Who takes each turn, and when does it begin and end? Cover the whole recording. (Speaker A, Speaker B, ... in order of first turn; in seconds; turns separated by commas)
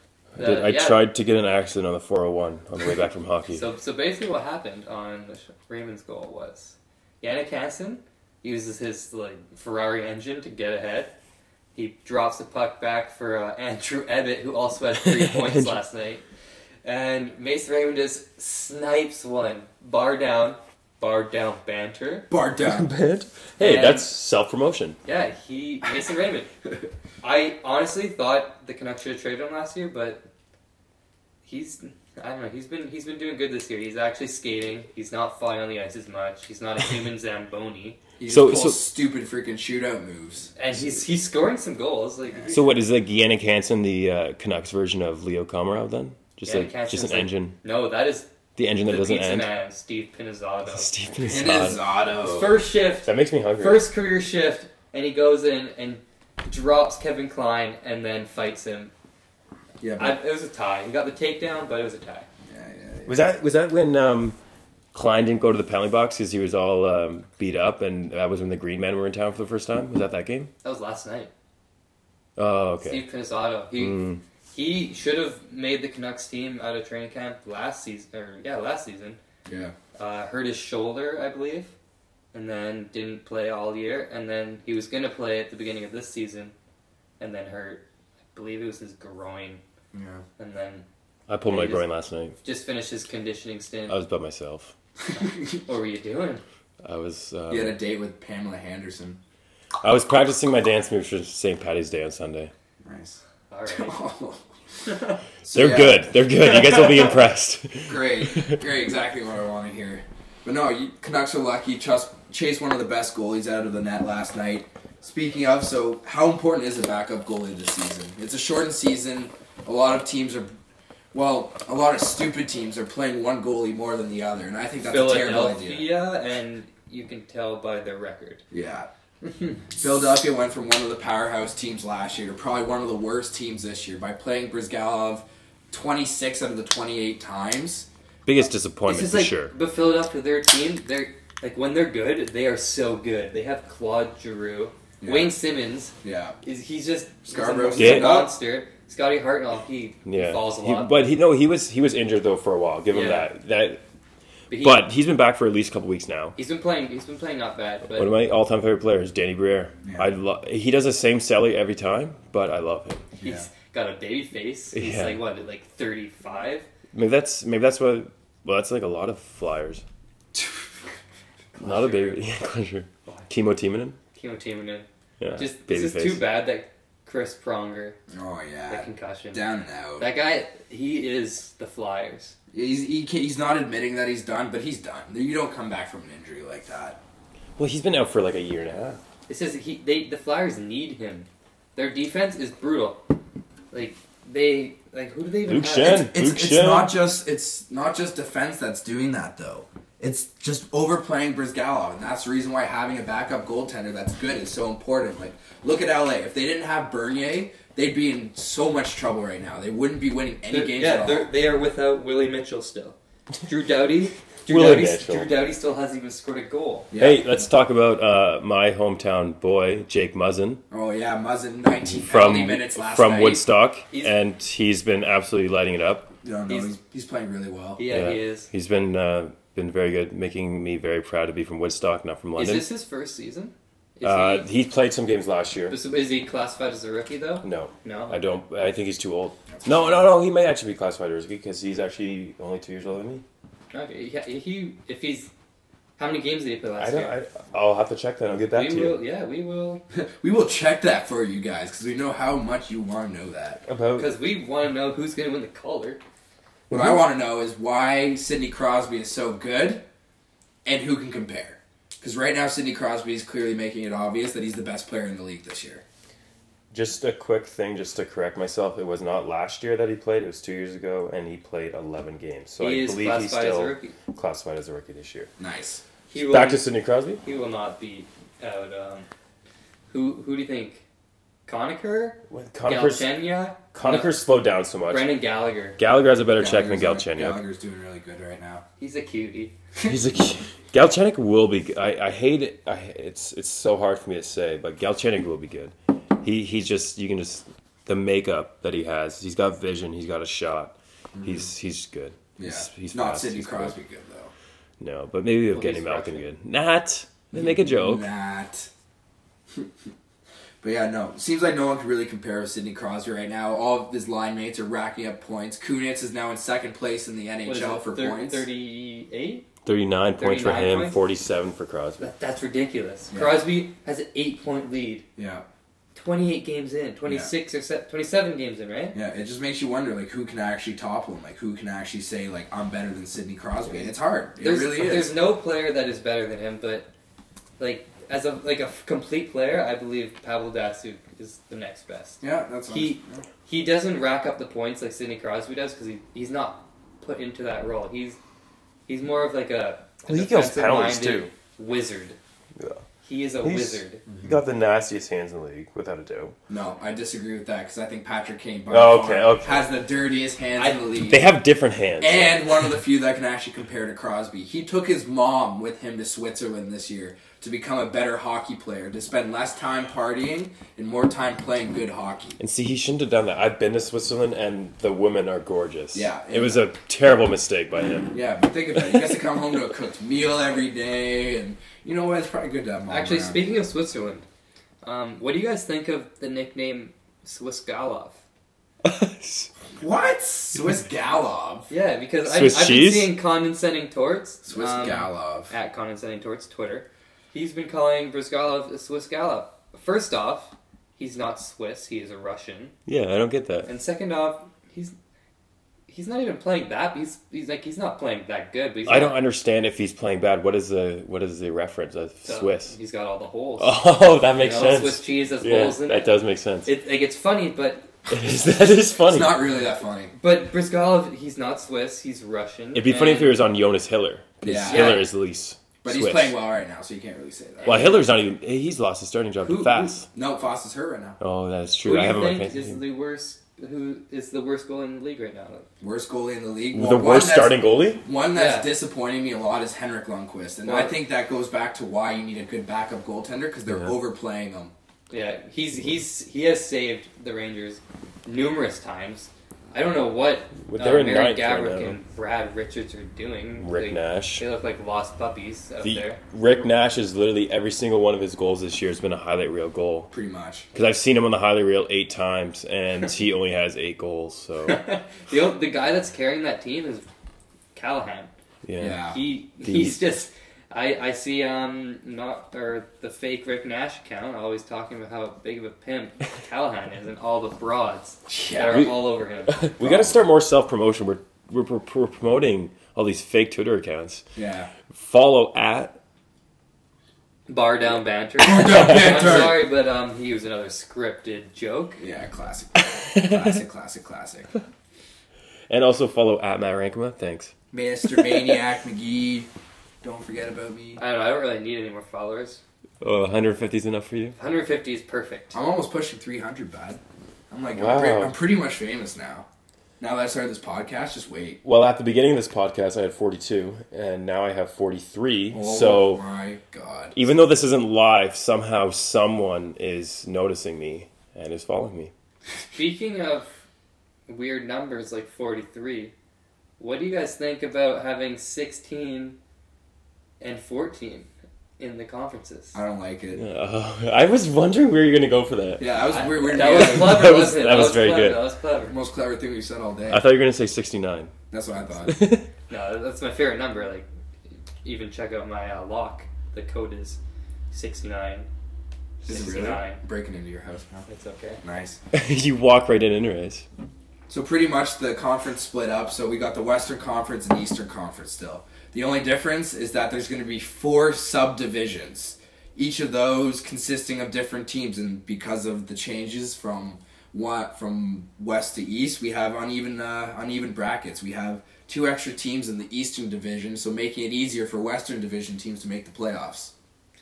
Speaker A: 0.4-1.1, Speaker B: 0.4-3.6, Speaker A: 3.5-11.1, Speaker A: 11.8-16.2, Speaker B: 15.0-15.8, Speaker A: 16.8-22.3, Speaker C: 22.3-22.9, Speaker B: 22.6-25.0, Speaker A: 23.6-24.1, Speaker A: 25.0-26.5, Speaker A: 27.2-30.3, Speaker A: 31.4-38.0, Speaker C: 38.2-40.5, Speaker B: 38.3-38.8, Speaker A: 40.6-42.6, Speaker B: 42.5-47.6, Speaker A: 46.5-48.3, Speaker B: 48.6-49.5, Speaker A: 48.9-51.0, Speaker B: 50.7-51.8, Speaker C: 51.2-52.6, Speaker A: 52.2-58.9, Speaker B: 53.0-53.9, Speaker C: 59.8-60.2, Speaker A: 60.0-62.3, Speaker C: 62.5-63.2, Speaker B: 63.1-64.4, Speaker B: 64.9-70.5, Speaker A: 70.6-71.3, Speaker B: 72.4-73.0, Speaker A: 72.8-79.2, Speaker B: 73.8-74.2, Speaker C: 79.5-79.8, Speaker A: 80.0-81.7, Speaker A: 82.3-86.5, Speaker A: 87.2-89.6, Speaker C: 89.9-90.2, Speaker A: 90.4-90.9, Speaker B: 91.3-92.4, Speaker A: 91.5-94.0, Speaker B: 93.9-94.7, Speaker C: 95.2-95.5, Speaker A: 95.2-96.4, Speaker B: 96.8-97.8, Speaker C: 97.5-99.2, Speaker B: 99.8-102.5, Speaker C: 102.8-104.4, Speaker A: 103.5-104.0, Speaker C: 105.4-107.1, Speaker B: 105.5-108.6, Speaker C: 107.8-120.5, Speaker C: 121.1-125.9, Speaker A: 124.8-128.4, Speaker C: 128.5-128.9, Speaker C: 129.7-137.9, Speaker B: 138.2-139.5, Speaker A: 138.9-151.1, Speaker C: 145.0-145.3, Speaker C: 146.0-146.4, Speaker C: 147.3-148.3, Speaker B: 147.8-148.2, Speaker B: 150.1-153.8, Speaker A: 152.9-153.3, Speaker A: 154.5-154.8, Speaker B: 154.5-156.4, Speaker A: 156.4-158.1, Speaker B: 157.9-163.1, Speaker C: 159.8-160.1, Speaker A: 163.2-166.7, Speaker C: 163.2-163.5, Speaker B: 164.7-165.2, Speaker B: 166.9-169.8, Speaker C: 170.3-170.6, Speaker A: 171.6-172.2, Speaker B: 171.6-174.0, Speaker A: 174.1-178.0, Speaker B: 175.2-176.2, Speaker C: 178.1-180.1, Speaker A: 178.7-182.3, Speaker C: 182.5-187.0, Speaker B: 187.6-189.0, Speaker A: 189.3-193.0, Speaker A: 193.7-196.1, Speaker B: 195.5-196.9, Speaker C: 195.9-211.3, Speaker A: 210.5-216.9, Speaker B: 214.5-215.3, Speaker C: 216.9-217.4, Speaker B: 216.9-220.6, Speaker C: 220.7-223.4, Speaker B: 222.0-226.1, Speaker C: 226.2-227.8, Speaker A: 226.5-226.7, Speaker A: 227.8-228.5, Speaker B: 227.9-232.7, Speaker A: 232.4-234.5, Speaker B: 234.0-235.8, Speaker A: 235.7-238.2, Speaker B: 237.4-243.2, Speaker C: 239.5-240.1, Speaker A: 243.7-245.3, Speaker A: 246.0-247.2, Speaker B: 246.8-249.0, Speaker A: 248.5-249.8, Speaker C: 249.9-253.6, Speaker B: 253.7-254.1, Speaker A: 254.0-256.0, Speaker B: 256.7-257.0, Speaker C: 256.7-259.8, Speaker C: 260.6-265.8, Speaker B: 266.7-275.3, Speaker A: 272.6-273.9, Speaker C: 275.4-275.8, Speaker A: 276.1-276.6, Speaker B: 276.2-277.2, Speaker A: 277.2-279.1, Speaker A: 279.9-280.8, Speaker A: 281.5-284.2, Speaker B: 282.3-285.1, Speaker A: 284.9-285.8, Speaker B: 285.8-287.4, Speaker C: 286.3-288.6, Speaker A: 288.8-289.6, Speaker B: 289.8-303.8, Speaker C: 301.1-301.4, Speaker C: 302.4-304.3, Speaker B: 304.8-308.1, Speaker A: 305.5-306.2, Speaker C: 307.4-308.7, Speaker C: 310.6-318.5, Speaker A: 317.4-319.5, Speaker B: 319.6-322.1, Speaker A: 320.2-321.0, Speaker A: 322.0-325.1, Speaker C: 323.1-323.4, Speaker C: 325.1-325.4, Speaker A: 325.9-329.0, Speaker C: 327.1-327.3, Speaker C: 328.9-335.2, Speaker A: 334.4-336.9, Speaker A: 337.6-348.2, Speaker C: 342.2-343.3, Speaker A: 348.9-352.2, Speaker B: 350.1-351.3, Speaker B: 352.6-352.8, Speaker A: 353.0-354.0, Speaker B: 353.4-356.4, Speaker C: 354.1-354.4, Speaker C: 356.5-361.4, Speaker B: 358.7-359.7, Speaker A: 360.6-360.8, Speaker B: 361.0-362.7, Speaker C: 362.0-372.4, Speaker B: 372.4-378.2, Speaker C: 375.9-376.7, Speaker C: 378.1-383.5, Speaker B: 378.8-379.1, Speaker A: 382.9-384.3, Speaker A: 384.8-388.2, Speaker B: 388.8-389.5, Speaker C: 389.8-391.7, Speaker A: 391.7-402.8, Speaker B: 392.2-393.1, Speaker C: 394.4-395.5, Speaker B: 402.9-403.7, Speaker A: 403.6-404.9, Speaker A: 405.9-409.2, Speaker B: 408.9-412.8, Speaker A: 412.3-413.8, Speaker B: 413.6-416.7, Speaker A: 414.4-416.1, Speaker A: 416.6-417.9, Speaker B: 418.1-419.4, Speaker C: 419.0-420.1, Speaker A: 420.1-423.4, Speaker B: 422.8-426.4, Speaker C: 424.4-425.1, Speaker A: 424.7-425.1, Speaker C: 425.8-427.9, Speaker A: 427.6-428.1, Speaker B: 427.6-430.1, Speaker A: 429.4-430.0, Speaker C: 430.1-431.2, Speaker B: 431.2-432.8, Speaker A: 431.9-435.6, Speaker C: 435.8-444.7, Speaker B: 436.7-438.1, Speaker A: 438.3-438.7, Speaker A: 440.6-440.9, Speaker A: 445.1-456.2, Speaker B: 450.6-452.0, Speaker B: 453.6-454.4, Speaker B: 455.8-460.1, Speaker C: 460.1-460.6, Speaker B: 460.7-464.8, Speaker A: 464.6-467.1, Speaker A: 467.7-468.3, Speaker B: 468.6-469.1, Speaker C: 468.8-469.2, Speaker A: 469.1-479.6, Speaker B: 469.6-470.1, Speaker C: 478.3-478.9, Speaker B: 478.7-484.2, Speaker C: 479.8-480.2, Speaker C: 484.4-484.7, Speaker B: 484.9-486.0, Speaker A: 487.5-492.0, Speaker C: 488.4-489.6, Speaker B: 488.7-489.5, Speaker C: 492.0-494.5, Speaker B: 493.1-493.5, Speaker B: 495.7-497.5, Speaker C: 497.7-499.5, Speaker C: 500.0-501.0, Speaker A: 501.0-502.6, Speaker B: 503.0-504.4, Speaker A: 504.4-505.6, Speaker C: 505.5-509.5, Speaker B: 507.8-508.3, Speaker C: 510.0-511.6, Speaker B: 511.6-516.2, Speaker C: 515.5-517.1, Speaker B: 517.1-522.1, Speaker A: 522.7-523.5, Speaker A: 524.3-526.1, Speaker A: 526.8-529.4, Speaker A: 530.4-532.8, Speaker C: 532.7-533.4, Speaker B: 533.4-538.5, Speaker C: 535.8-537.4, Speaker A: 536.1-539.0, Speaker C: 538.9-540.2, Speaker B: 540.1-541.3, Speaker C: 541.5-542.2, Speaker B: 542.1-542.5, Speaker A: 542.7-544.1, Speaker A: 544.8-547.2, Speaker A: 547.7-548.5, Speaker C: 549.2-551.1, Speaker A: 549.3-550.0, Speaker A: 551.1-551.6, Speaker C: 551.6-552.0, Speaker B: 552.1-553.6, Speaker C: 554.3-576.7